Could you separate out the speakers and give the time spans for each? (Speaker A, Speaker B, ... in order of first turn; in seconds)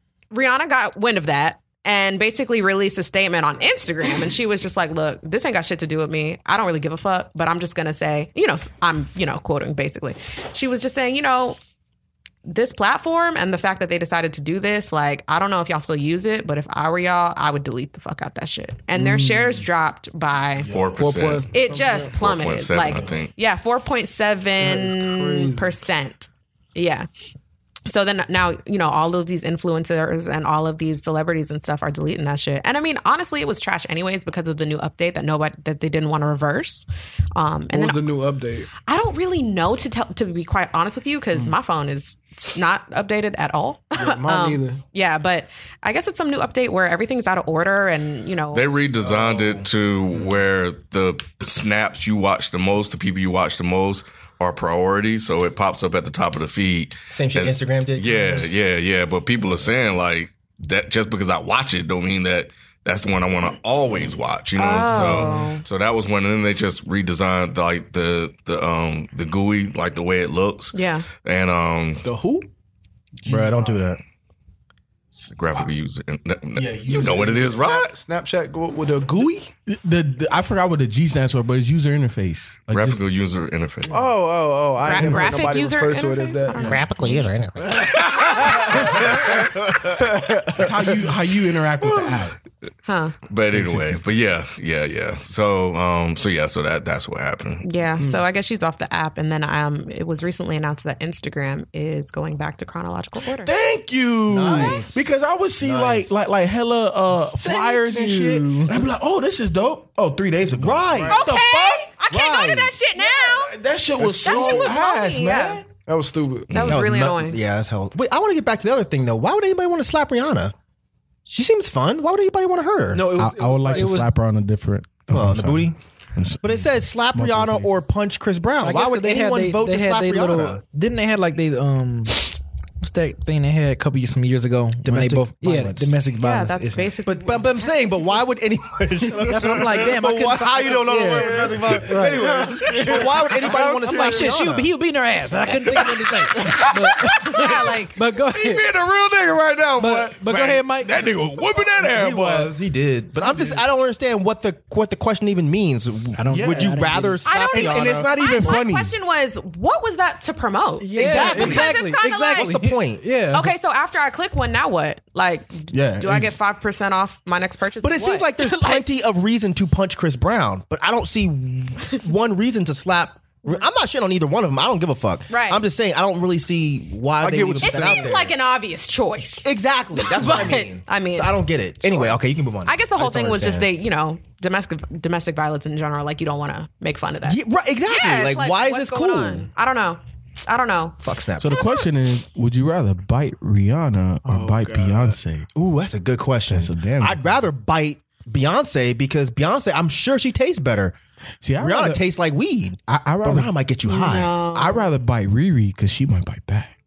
Speaker A: 0.3-11.6, 12.5-20.7, 21.5-27.1, 27.9-38.0, 38.9-48.7, 64.6-65.6, 70.7-71.1, 84.8-87.2, 92.8-93.2, 97.6-103.5, 111.1-113.6, 114.1-115.6, 116.5-117.4, 136.2-137.7, 147.2-148.0, 157.2-162.5, 163.3-168.8, 175.3-175.6, 177.6-181.4, 182.7-191.9, 203.8-204.9
Speaker B: 18.9-19.6, 21.0-22.1, 24.6-25.7, 37.7-38.7, 44.0-44.8, 49.0-49.6, 64.9-65.3, 72.0-72.5, 76.9-79.5, 83.9-86.8, 87.7-91.2, 91.8-92.2, 114.2-114.7, 115.9-116.5, 122.9-124.0, 141.1-144.3, 177.2-178.2, 194.2-195.2
Speaker C: 20.7-23.3, 48.5-72.0, 75.2-77.9, 82.7-84.0, 93.3-97.7, 116.5-116.8
Speaker D: 57.1-58.5, 73.3-74.0, 86.6-87.8, 104.3-105.1, 105.6-106.1, 110.5-112.8, 116.6-120.5, 121.3-123.1, 125.1-125.8, 126.4-130.6, 134.8-135.9, 137.0-144.7, 151.7-158.1, 161.0-163.1, 167.8-178.3, 179.4-183.7, 187.2-189.5, 191.0-191.7, 195.6-201.0, 201.6-204.3
Speaker E: 73.2-73.9, 76.6-77.5, 79.7-83.0, 84.9-85.2, 86.6-86.8, 90.6-92.3, 93.5-93.9, 103.4-111.3, 113.0-115.7, 123.1-127.8, 146.4-147.3, 148.3-152.5, 156.3-156.8, 157.5-158.9, 165.7-166.4, 191.4-195.5, 196.5-197.3, 201.4-202.0, 202.9-203.5, 204.5-206.8
Speaker F: 107.4-108.8, 123.7-124.1, 128.6-137.0, 139.2-148.8, 149.8-151.2, 156.2-157.2, 160.8-163.5